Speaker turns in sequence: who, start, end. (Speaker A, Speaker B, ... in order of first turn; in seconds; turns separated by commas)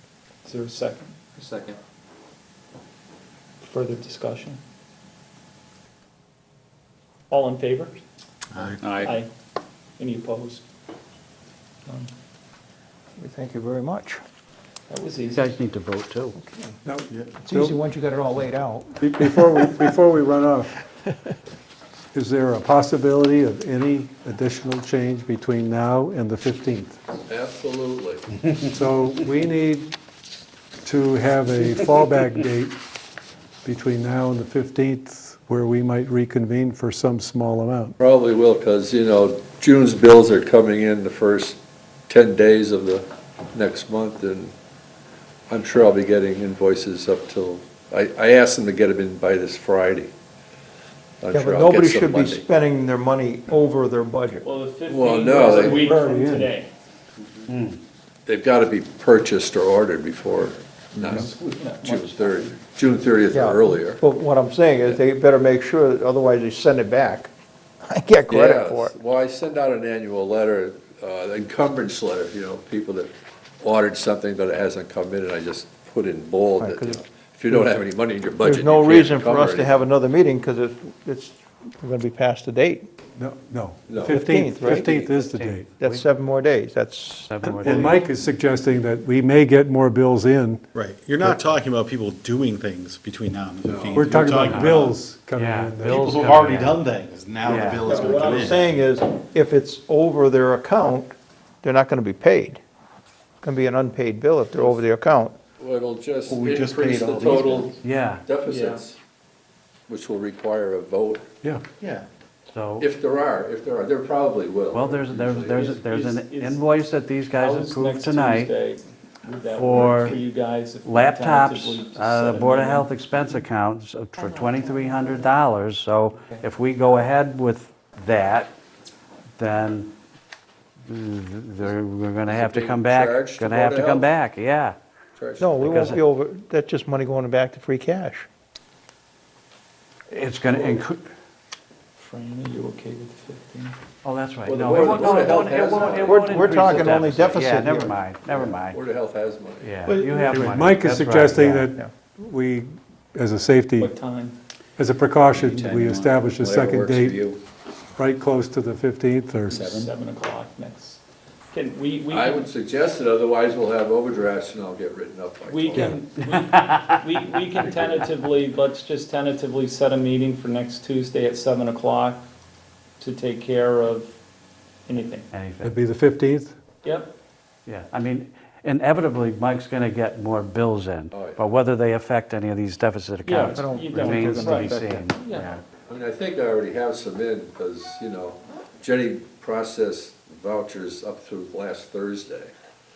Speaker A: 0.4-1.7, Speaker A: 3.6-4.6, Speaker A: 7.3-8.0, Speaker B: 8.5-8.8, Speaker C: 8.8-9.1, Speaker A: 8.9-9.3, Speaker A: 10.0-10.6, Speaker D: 13.2-14.2, Speaker A: 14.9-15.5, Speaker E: 15.3-16.3, Speaker D: 16.4-16.8, Speaker F: 16.8-17.8, Speaker D: 17.4-19.6, Speaker F: 19.0-20.7, Speaker F: 22.1-27.0, Speaker G: 27.3-28.2, Speaker F: 28.7-29.9, Speaker F: 30.8-32.8, Speaker F: 33.6-37.9, Speaker G: 38.0-41.6, Speaker G: 42.1-44.5, Speaker G: 45.5-50.1, Speaker G: 51.2-52.5, Speaker D: 51.3-54.4, Speaker A: 54.4-56.7, Speaker G: 54.9-55.9, Speaker F: 55.7-56.5, Speaker E: 57.5-57.8, Speaker G: 58.2-61.3, Speaker A: 61.0-62.6, Speaker G: 61.8-64.0, Speaker D: 63.3-67.3, Speaker D: 67.8-68.9, Speaker G: 68.3-79.8, Speaker D: 76.6-77.7, Speaker D: 78.4-82.9, Speaker F: 83.2-85.8, Speaker G: 83.9-85.2, Speaker D: 84.0-85.0, Speaker E: 85.1-86.0, Speaker D: 85.8-88.1, Speaker E: 87.3-87.9, Speaker F: 87.6-90.7, Speaker B: 90.7-95.0, Speaker G: 93.7-94.1, Speaker F: 93.9-96.2, Speaker E: 94.4-94.7, Speaker E: 95.3-96.8, Speaker B: 95.8-98.7, Speaker E: 97.4-98.4, Speaker D: 97.8-102.6, Speaker D: 103.4-105.3, Speaker G: 105.6-109.0, Speaker B: 106.3-107.7, Speaker E: 107.8-108.2, Speaker A: 108.4-108.8, Speaker G: 109.9-111.2, Speaker B: 111.8-112.1, Speaker E: 112.5-112.9, Speaker G: 112.8-115.8, Speaker E: 114.7-118.5, Speaker A: 115.5-116.7, Speaker A: 117.3-122.9, Speaker E: 119.5-120.2, Speaker E: 120.8-128.5, Speaker E: 129.4-129.9, Speaker E: 130.9-134.8, Speaker G: 132.3-134.1, Speaker G: 135.2-135.8, Speaker D: 135.4-138.3, Speaker E: 135.6-136.0, Speaker E: 140.1-141.0, Speaker G: 140.5-140.8, Speaker A: 142.0-143.7, Speaker E: 144.0-148.8, Speaker G: 144.4-146.5, Speaker D: 146.0-148.0, Speaker G: 148.3-149.7, Speaker E: 149.6-151.6, Speaker B: 149.8-150.5, Speaker F: 150.3-153.9, Speaker D: 151.4-151.9, Speaker A: 153.8-154.4, Speaker F: 154.8-157.2, Speaker C: 155.4-157.3, Speaker F: 157.9-159.9, Speaker A: 159.5-161.0, Speaker C: 159.6-159.8, Speaker A: 161.5-162.5, Speaker G: 162.1-165.9, Speaker A: 165.5-172.2, Speaker E: 166.3-166.9, Speaker G: 167.5-168.1, Speaker A: 173.0-174.1, Speaker A: 174.9-175.3, Speaker E: 175.3-175.8, Speaker F: 175.6-176.5, Speaker A: 176.8-177.1, Speaker E: 177.7-185.6, Speaker G: 181.1-181.4, Speaker A: 183.2-185.5, Speaker D: 183.5-185.1, Speaker G: 185.8-192.5